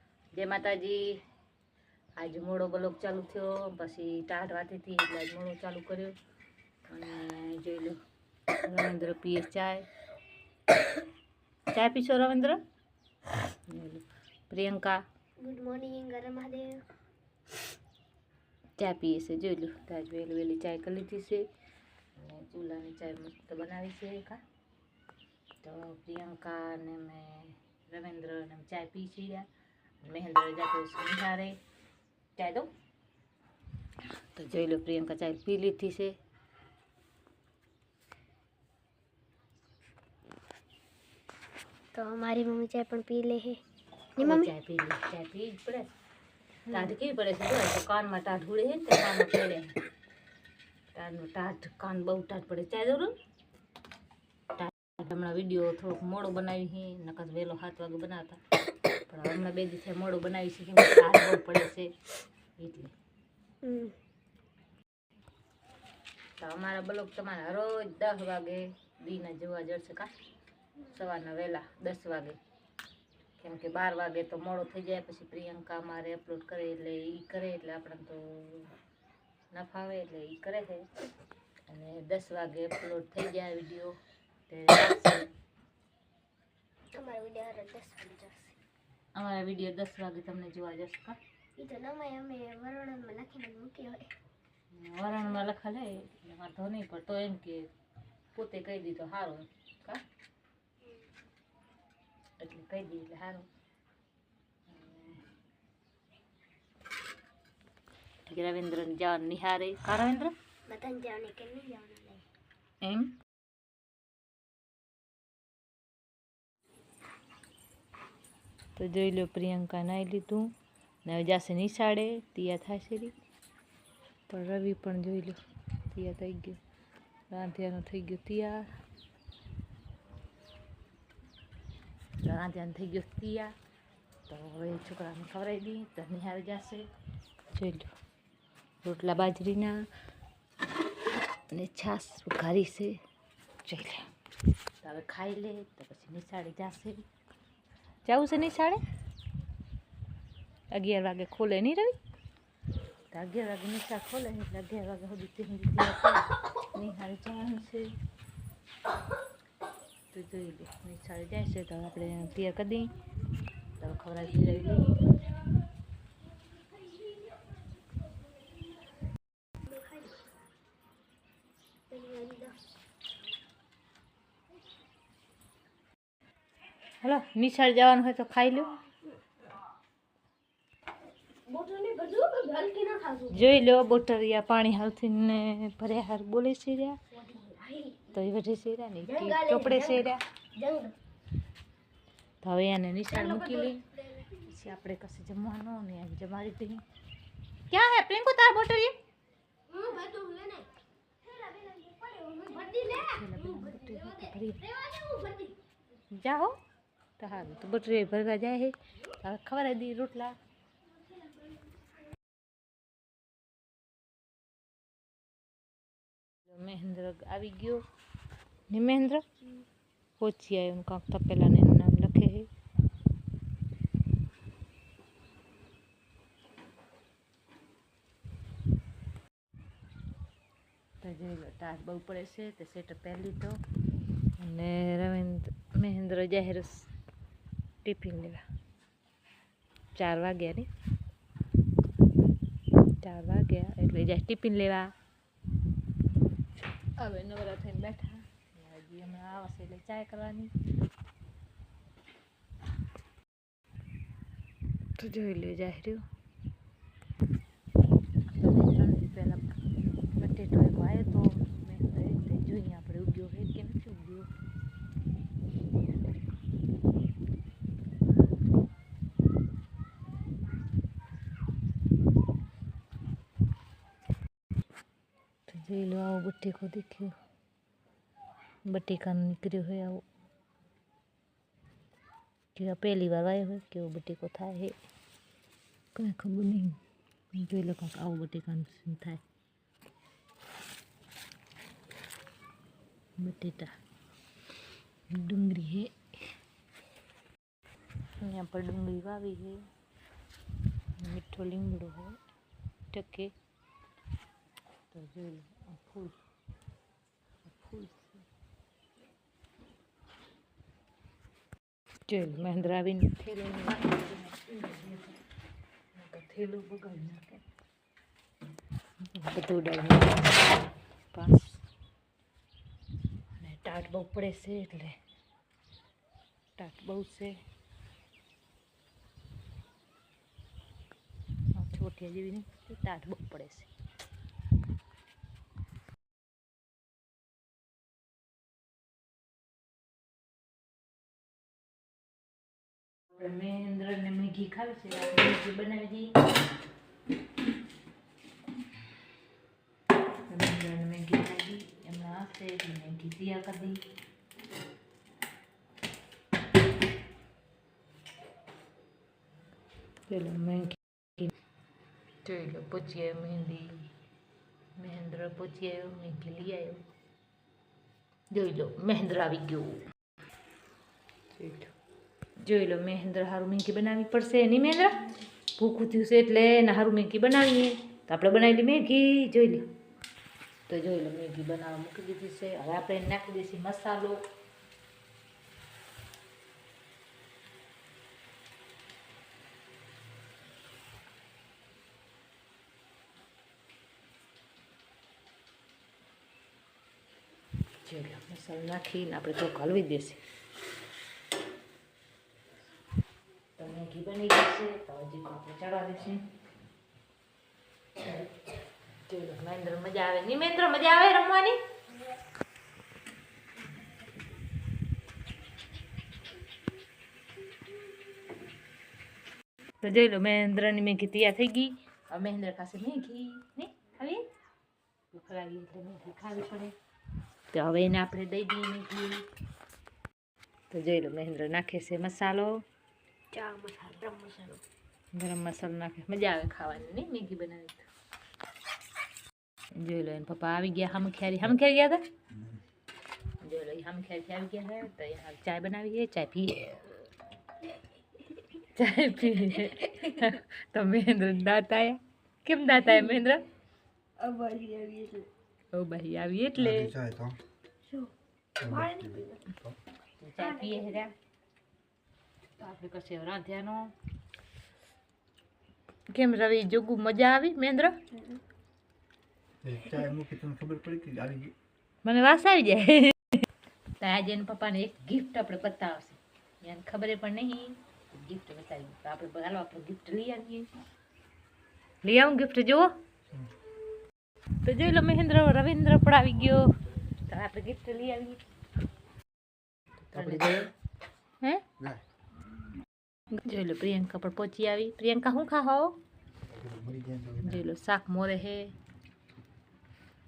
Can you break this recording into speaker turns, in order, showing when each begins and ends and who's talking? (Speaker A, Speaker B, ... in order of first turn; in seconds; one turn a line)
Speaker A: 0.3-1.2
Speaker A: 2.2-6.2
Speaker A: 6.9-8.0
Speaker A: 8.6-9.9
Speaker A: 11.7-12.6
Speaker A: 13.7-15.0
Speaker B: 15.4-16.8
Speaker A: 18.8-21.5
Speaker A: 22.1-24.4
Speaker A: 25.6-29.5
Speaker A: 30.0-31.6
Speaker A: 32.4-32.7
Speaker A: 34.3-36.2
Speaker B: 41.9-43.6
Speaker B: 44.2-44.5
Speaker A: 44.2-45.9
Speaker A: 46.7-49.8
Speaker A: 50.9-53.1
Speaker A: 54.6-58.4
Speaker A: 59.1-61.9
Speaker A: 62.6-62.9
Speaker B: 63.6-64.0
Speaker A: 66.4-70.1
Speaker A: 70.9-72.4
Speaker A: 73.4-78.7
Speaker A: 79.5-80.9
Speaker A: 81.7-84.0
Speaker A: 84.5-85.3
Speaker B: 87.0-88.6
Speaker A: 89.2-91.2
Speaker B: 91.6-94.1
Speaker A: 94.7-97.7
Speaker A: 98.3-100.0
Speaker A: 102.4-103.5
Speaker A: 104.7-105.2
Speaker A: 108.3-110.3
Speaker B: 110.7-112.2
Speaker A: 112.8-113.2
Speaker A: 118.8-120.5
Speaker A: 121.0-123.1
Speaker A: 124.3-125.4
Speaker A: 125.9-126.6
Speaker A: 127.3-128.7
Speaker A: 132.2-133.5
Speaker A: 134.3-136.9
Speaker A: 137.5-137.9
Speaker A: 138.8-139.9
Speaker A: 141.5-143.0
Speaker A: 143.7-144.1
Speaker A: 144.8-147.0
Speaker A: 148.1-148.8
Speaker A: 150.7-152.0
Speaker A: 153.1-157.9
Speaker A: 160.1-162.9
Speaker A: 163.8-165.1
Speaker B: 169.7-170.2
Speaker B: 171.9-172.6
Speaker A: 177.0-178.8
Speaker B: 181.5-183.4
Speaker A: 183.3-187.0
Speaker B: 187.1-188.1
Speaker A: 188.1-190.2
Speaker B: 189.0-191.0
Speaker A: 192.4-196.8
Speaker B: 193.1-194.4
Speaker A: 197.7-199.0
Speaker B: 199.7-200.7
Speaker B: 201.3-205.6
Speaker A: 203.0-204.6
Speaker A: 206.1-206.6
Speaker A: 207.2-210.3
Speaker A: 216.5-217.8
Speaker A: 218.7-219.2
Speaker A: 220.2-222.5
Speaker A: 231.0-233.6
Speaker A: 234.4-236.9
Speaker A: 237.8-238.4
Speaker A: 240.0-240.7
Speaker A: 243.0-244.9
Speaker A: 247.0-250.5
Speaker A: 255.0-256.1
Speaker A: 258.4-259.5
Speaker A: 260.2-264.3
Speaker A: 275.5-277.1
Speaker A: 278.7-280.0
Speaker A: 282.6-284.8
Speaker A: 285.9-286.8
Speaker A: 287.3-289.2
Speaker A: 293.2-293.8
Speaker A: 295.1-296.0
Speaker A: 298.2-299.6
Speaker A: 301.0-302.2
Speaker A: 302.9-303.3
Speaker A: 304.9-306.2
Speaker A: 307.5-308.2
Speaker A: 312.1-315.2
Speaker A: 315.9-317.4
Speaker A: 319.1-320.6
Speaker A: 321.1-321.6
Speaker A: 323.4-325.0
Speaker A: 326.6-327.4
Speaker A: 331.6-333.7
Speaker A: 343.1-346.2
Speaker A: 350.3-353.8
Speaker A: 360.1-361.3
Speaker A: 362.2-363.9
Speaker A: 364.8-366.8
Speaker A: 368.3-369.9
Speaker A: 371.4-371.7
Speaker A: 372.4-379.7
Speaker A: 380.7-384.2
Speaker A: 397.8-400.2
Speaker A: 403.6-406.2
Speaker A: 409.1-411.6
Speaker A: 419.8-424.3
Speaker A: 425.1-426.7
Speaker A: 427.5-429.3
Speaker A: 430.7-432.6
Speaker B: 433.3-434.6
Speaker A: 435.1-437.9
Speaker A: 439.8-442.1
Speaker A: 443.4-446.8
Speaker A: 448.6-453.5
Speaker B: 454.2-455.3
Speaker A: 455.7-456.9
Speaker C: 456.6-457.4
Speaker B: 457.9-459.4
Speaker C: 458.6-459.8
Speaker A: 460.2-461.1
Speaker B: 460.4-461.1
Speaker A: 462.6-463.9
Speaker A: 466.1-468.0
Speaker C: 469.6-471.5
Speaker A: 472.0-473.4
Speaker A: 474.0-480.7
Speaker A: 482.0-483.0
Speaker A: 484.6-488.4
Speaker A: 490.1-490.7
Speaker C: 490.2-490.6
Speaker A: 493.3-496.0
Speaker C: 496.5-497.6
Speaker A: 497.4-498.7